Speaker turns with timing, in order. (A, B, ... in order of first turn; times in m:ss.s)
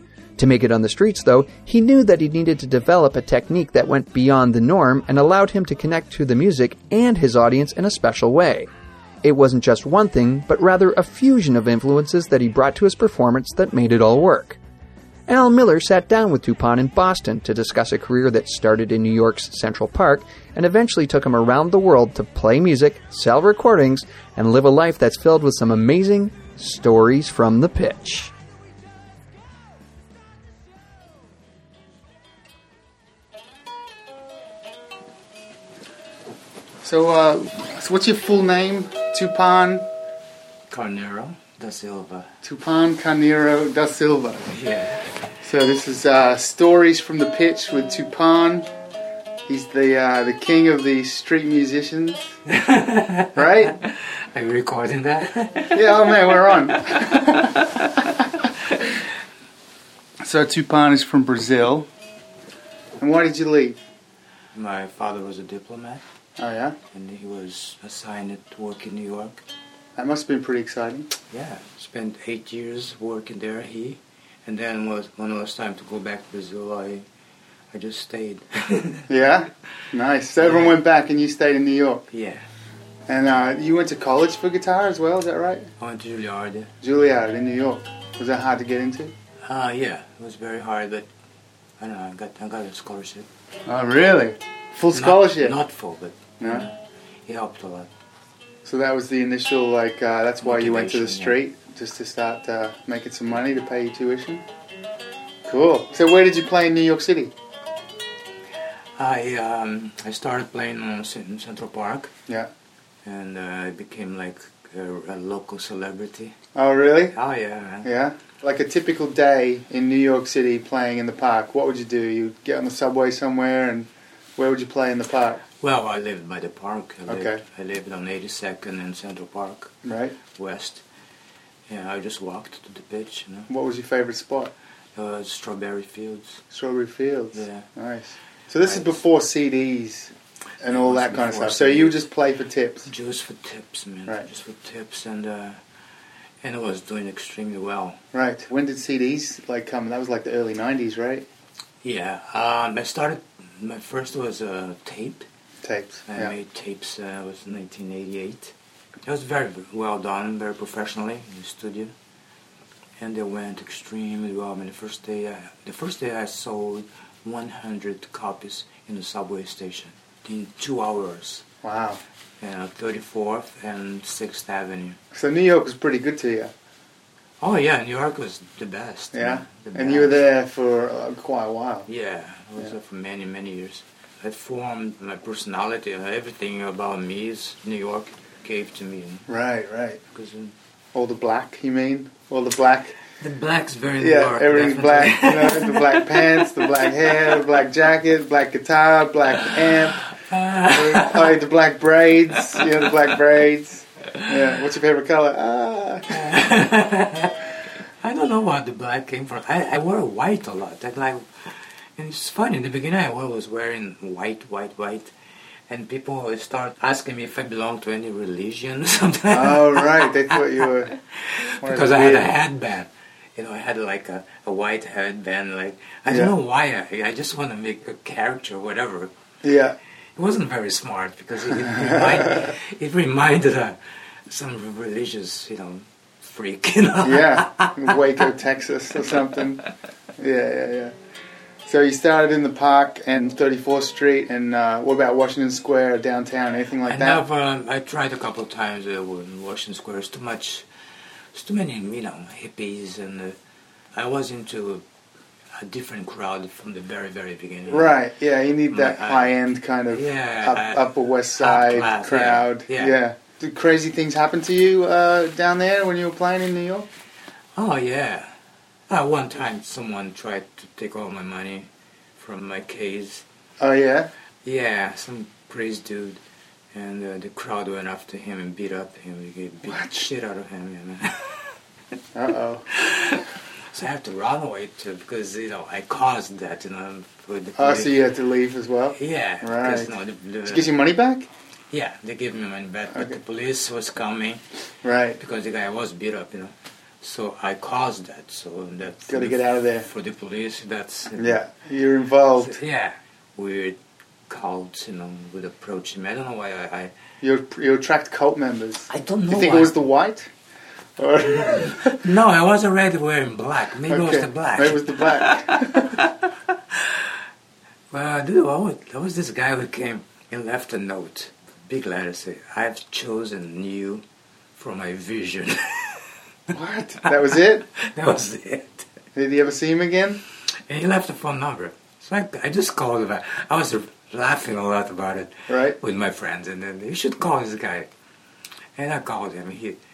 0:00.4-0:08.7 A
0:09.2-0:14.6 A
0:15.3-0:28.3 A
0:36.8-0:39.8 B
0:40.7-0:42.3 C
0:42.4-0:44.5 B
0:44.5-0:45.0 C
0:45.4-0:48.7 B
0:49.5-0:52.3 B
0:52.5-0:58.2 C
0:53.4-0:53.7 B
0:55.7-0:57.6 B
1:00.2-1:01.9 B
1:03.0-1:03.8 B
1:04.5-1:06.0 C
1:06.4-1:06.8 B
1:06.9-1:09.4 C
1:10.0-1:11.1 B
1:11.3-1:17.0 C
1:17.7-1:19.1 C
1:19.1-1:22.0 B
1:20.4-1:20.7 C
1:22.1-1:22.4 C
1:23.1-1:25.7 B
1:25.8-1:26.7 C
1:26.8-1:29.1 B
1:29.4-1:31.1 C
1:31.8-1:33.3 C
1:33.6-1:35.6 B
1:34.9-1:37.9 C
1:36.4-1:36.7 B
1:38.6-1:44.4 B
1:40.4-1:41.4 C
1:45.5-1:47.3 B
1:49.0-1:52.1 C
1:53.0-1:56.4 C
1:56.5-1:57.1 B
1:57.1-1:57.9 C
1:57.8-2:05.4 B
2:05.6-2:09.7 C
2:07.1-2:07.4 B
2:09.8-2:10.1 B
2:10.3-2:10.8 C
2:11.7-2:13.5 C
2:13.5-2:14.5 B
2:14.9-2:16.4 C
2:16.5-2:22.9 B
2:17.3-2:17.7 C
2:20.6-2:22.0 C
2:22.8-2:25.6 C
2:26.4-2:28.0 C
2:28.1-2:31.2 B
2:31.8-2:35.2 C
2:35.6-2:36.3 B
2:36.1-2:38.5 C
2:39.0-2:41.9 C
2:43.0-2:51.4 C
2:51.6-2:52.0 B
2:52.4-2:55.0 C
2:55.1-2:56.5 B
2:57.4-3:00.2 C
2:59.1-3:01.9 B
3:01.9-3:09.2 C
3:09.3-3:10.0 B
3:10.1-3:10.5 C
3:10.9-3:13.0 B
3:13.2-3:16.9 C
3:14.0-3:20.1 B
3:19.4-3:21.4 C
3:20.7-3:26.3 B
3:26.1-3:35.1 C
3:35.7-3:49.1 C
3:39.3-3:40.9 B
3:41.6-3:42.3 B
3:46.1-3:46.3 B
3:49.4-3:49.7 B
3:50.2-3:58.0 C
3:51.6-3:52.5 B
3:57.0-3:59.6 B
4:00.2-4:00.9 B
4:01.6-4:07.2 B
4:06.8-4:10.6 C
4:11.3-4:13.4 C
4:13.9-4:14.8 C
4:15.6-4:17.9 C
4:17.7-4:26.9 B
4:18.7-4:19.3 C
4:19.9-4:20.8 C
4:21.4-4:22.9 C
4:27.6-4:28.3 C
4:28.9-4:33.2 C
4:33.6-4:34.1 B
4:34.4-4:36.2 C
4:36.7-4:41.5 C
4:42.1-4:42.7 B
4:42.7-4:48.0 C
4:47.6-4:49.9 B
4:48.9-4:50.7 C
4:50.4-4:51.3 B
4:51.7-4:54.4 C
4:54.8-4:55.2 B
4:55.2-5:01.4 C
4:59.1-4:59.9 B
5:01.2-5:02.6 B
5:02.4-5:03.8 C
5:04.3-5:06.9 C
5:07.2-5:10.3 B
5:08.9-5:09.8 C
5:11.0-5:12.0 B
5:11.2-5:17.1 C
5:13.9-5:16.0 B
5:17.9-5:24.0 C
5:24.6-5:26.0 C
5:26.5-5:27.6 B
5:27.0-5:28.9 C
5:29.1-5:30.2 B
5:30.7-5:37.9 C
5:35.5-5:35.8 B
5:38.8-5:39.8 C